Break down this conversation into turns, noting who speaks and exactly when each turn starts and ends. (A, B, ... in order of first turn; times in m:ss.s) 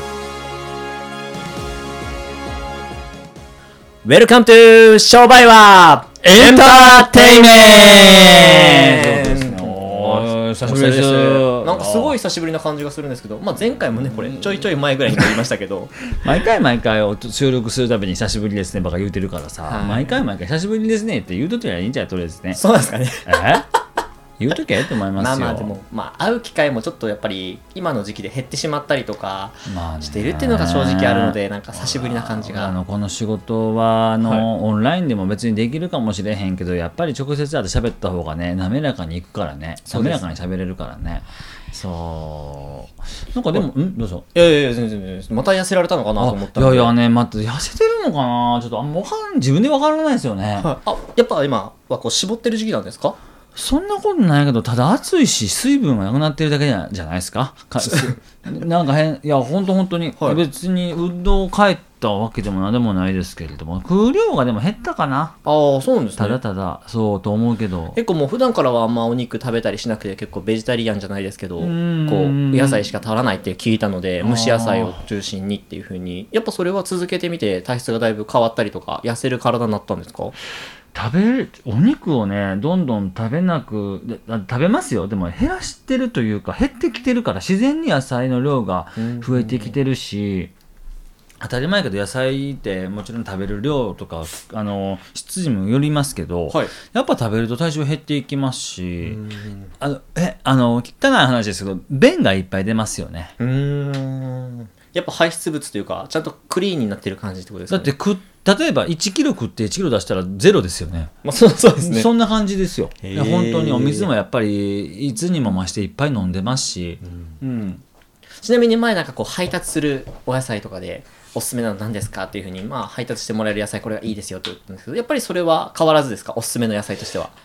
0:04.0-0:16.2 A
0:06.2-0:12.2 B
0:16.2-0:22.6 B
0:19.6-0:20.2 A
0:22.5-0:23.8 A
0:23.2-0:23.7 B
0:24.4-0:25.8 B
0:25.1-0:32.8 A
0:29.7-0:44.3 B
0:34.2-0:34.5 A
0:39.9-0:40.3 A
0:44.3-0:46.9 A
0:46.2-0:50.7 B
0:50.6-0:53.2 A
0:53.6-1:05.4 B
1:00.2-1:00.4 A
1:05.4-1:06.4 A
1:06.2-1:08.0 B
1:07.9-1:20.4 A
1:11.6-1:12.9 B
1:14.2-1:15.0 B
1:20.9-1:30.5 B
1:29.0-1:29.8 A
1:31.4-1:39.2 B
1:39.0-1:39.7 A
1:39.8-1:43.4 B
1:43.4-1:47.9 A
1:47.7-1:51.1 B
1:51.2-1:52.1 A
1:51.8-1:57.8 B
1:53.0-1:54.1 A
1:57.0-1:57.3 A
1:58.4-2:07.4 A